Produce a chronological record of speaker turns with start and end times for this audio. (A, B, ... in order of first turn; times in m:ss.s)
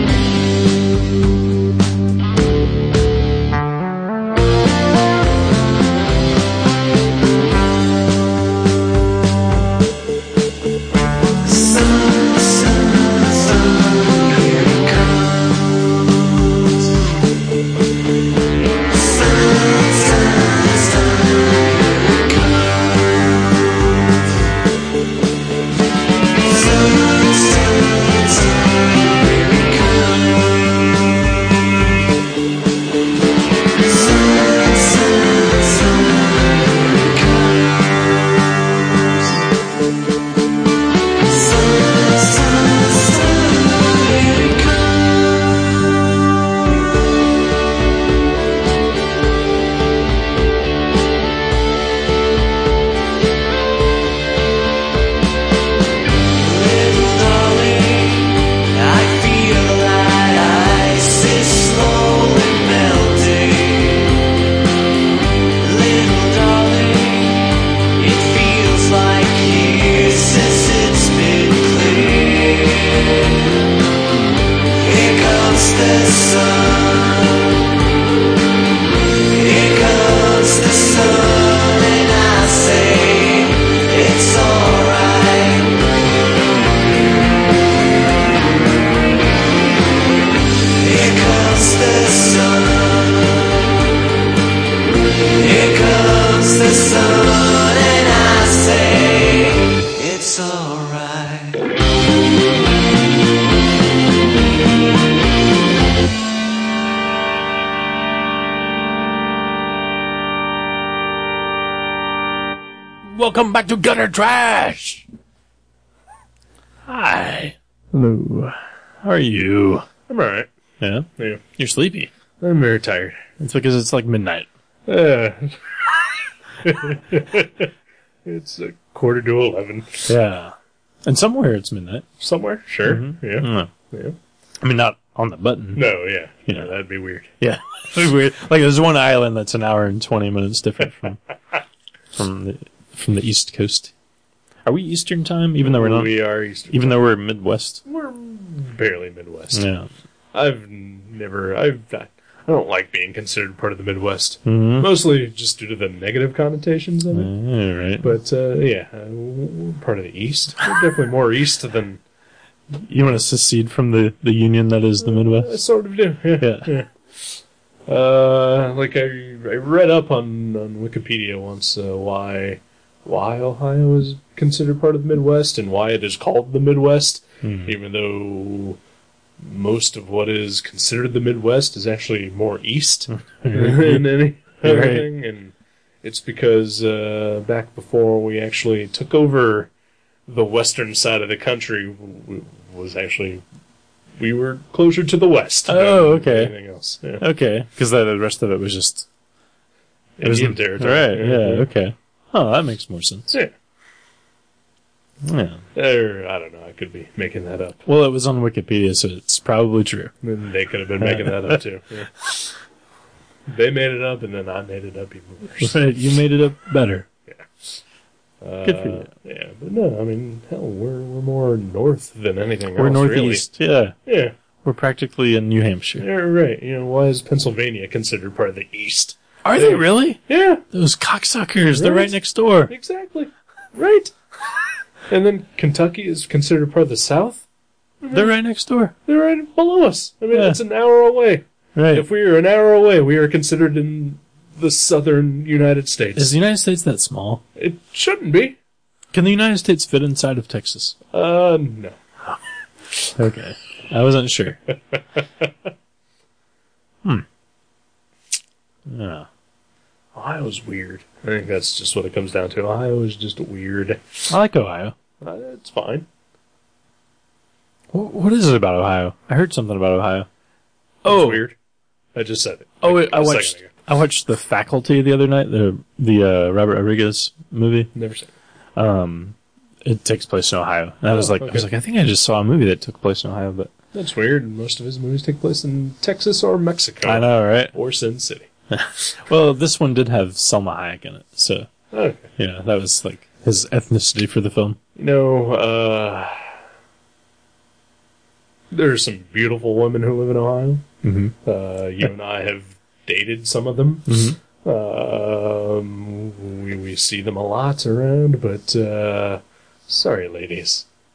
0:11.4-0:17.0 A
0:18.9-0:24.5 A
0:26.4-0:31.6 A
0:33.8-0:39.5 A
0:41.2-0:46.0 A
0:56.4-1:04.4 A
1:05.6-1:13.6 A
1:14.8-1:17.6 A
1:19.3-1:25.9 A
1:30.8-1:33.5 A
1:35.4-1:41.6 A
1:53.1-1:55.1 B
1:56.9-1:59.9 B
2:00.1-2:00.5 C
2:00.8-2:02.1 B
2:01.2-2:01.4 C
2:02.4-2:03.2 C
2:03.4-2:04.5 B
2:04.9-2:05.8 C
2:06.6-2:07.7 C
2:08.2-2:10.1 C
2:10.1-2:12.1 B
2:12.2-2:14.2 C
2:12.8-2:13.7 B
2:14.6-2:15.9 B
2:15.8-2:17.3 C
2:17.4-2:21.2 B
2:22.1-2:23.9 B
2:24.6-2:27.8 B
2:25.6-2:27.1 C
2:27.8-2:29.7 C
2:29.5-2:29.9 B
2:30.3-2:37.3 C
2:34.5-2:34.9 B
2:37.1-2:38.2 B
2:38.0-2:42.0 C
2:42.7-2:45.6 B
2:45.0-2:58.8 C
2:46.4-2:46.7 B
2:57.4-2:57.8 B
2:59.4-3:09.7 C
3:03.1-3:04.1 B
3:04.6-3:05.1 B
3:10.3-3:13.4 C
3:14.2-3:17.2 C
3:15.7-3:16.5 B
3:17.2-3:19.1 B
3:20.2-3:21.7 C
3:20.2-3:23.3 B
3:25.2-3:25.6 B
3:25.8-3:27.8 C
3:27.9-3:30.1 B
3:30.2-3:32.2 C
3:31.0-3:31.6 B
3:33.5-3:35.8 C
3:35.6-3:37.1 B
3:38.4-3:43.5 C
3:38.6-3:39.1 B
3:42.8-3:44.0 B
3:44.1-3:44.4 C
3:44.6-3:46.1 B
3:46.0-3:50.6 C
3:49.4-3:52.7 B
3:51.7-3:54.1 C
3:55.1-3:57.4 C
3:58.0-3:58.3 C
3:58.1-3:58.9 B
3:59.1-4:06.3 C
4:00.3-4:00.6 B
4:01.8-4:02.1 B
4:06.2-4:07.4 B
4:07.6-4:08.6 C
4:09.1-4:11.0 B
4:11.1-4:12.0 C
4:13.2-4:14.6 B
4:14.9-4:15.5 C
4:18.9-4:19.3 B
4:20.2-4:24.3 C
4:24.3-4:25.0 B
4:25.2-4:26.1 C
4:27.9-4:30.3 B
4:31.0-4:31.4 B
4:31.0-4:31.6 C
4:32.2-4:33.7 C
4:32.8-4:37.9 B
4:37.9-4:38.3 C
4:38.8-4:43.7 B
4:41.1-4:41.7 C
4:43.9-4:48.5 C
4:47.0-4:47.7 B
4:48.7-4:51.7 B
4:51.9-4:52.3 C
4:52.4-4:54.8 B
4:55.0-4:56.4 C
4:58.7-5:00.9 C
5:01.0-5:01.3 B
5:01.4-5:10.9 C
5:04.1-5:04.4 B